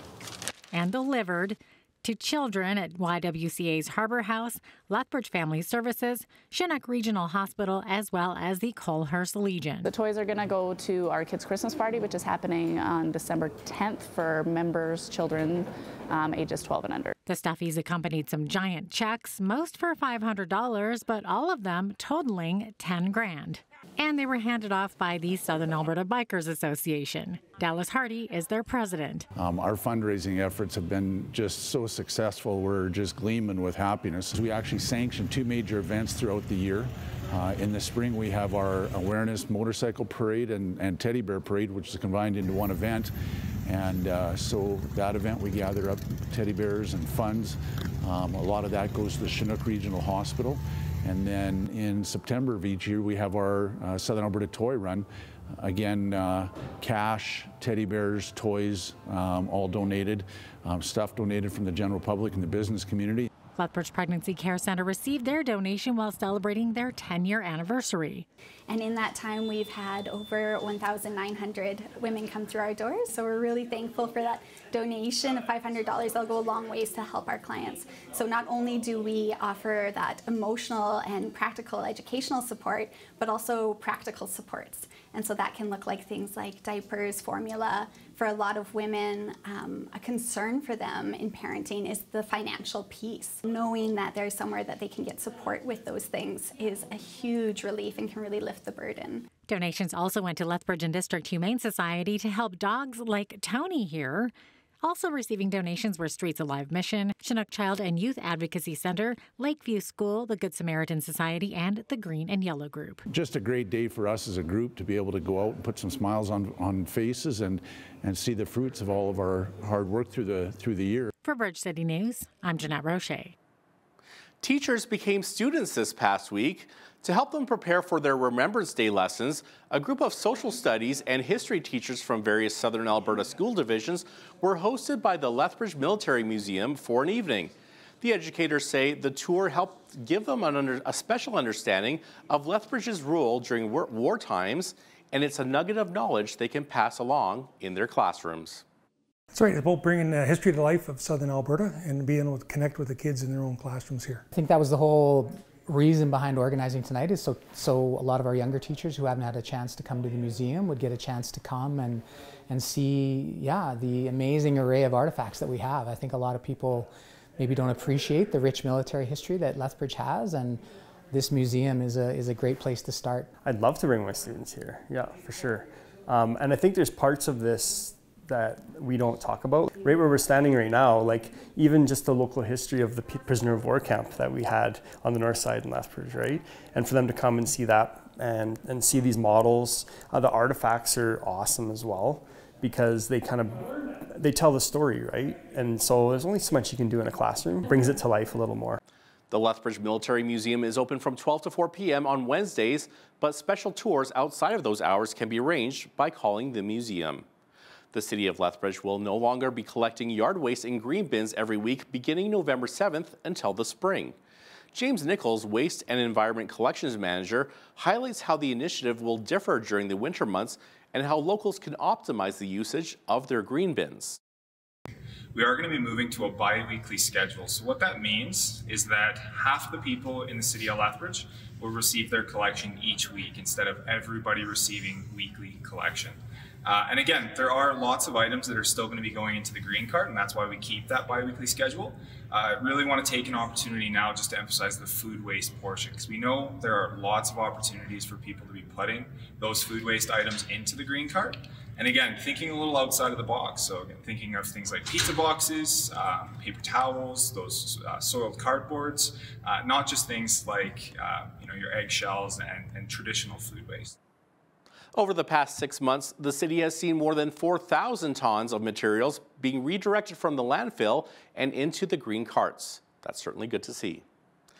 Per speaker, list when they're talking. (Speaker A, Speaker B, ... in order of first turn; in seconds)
Speaker A: 0.7-9.9, 17.2-29.3, 63.5-68.2, 99.5-113.0, 121.2-123.3
Speaker B: 9.8-17.1
Speaker C: 29.3-43.1, 43.6-63.3, 113.1-121.1
Speaker D: 68.7-99.3
Speaker E: 124.4-148.6, 199.3-207.2, 207.9-214.2, 214.7-224.2, 264.9-274.0
Speaker F: 149.3-154.2
Speaker G: 154.3-173.3
Speaker H: 173.4-198.8
Speaker I: 225.3-263.9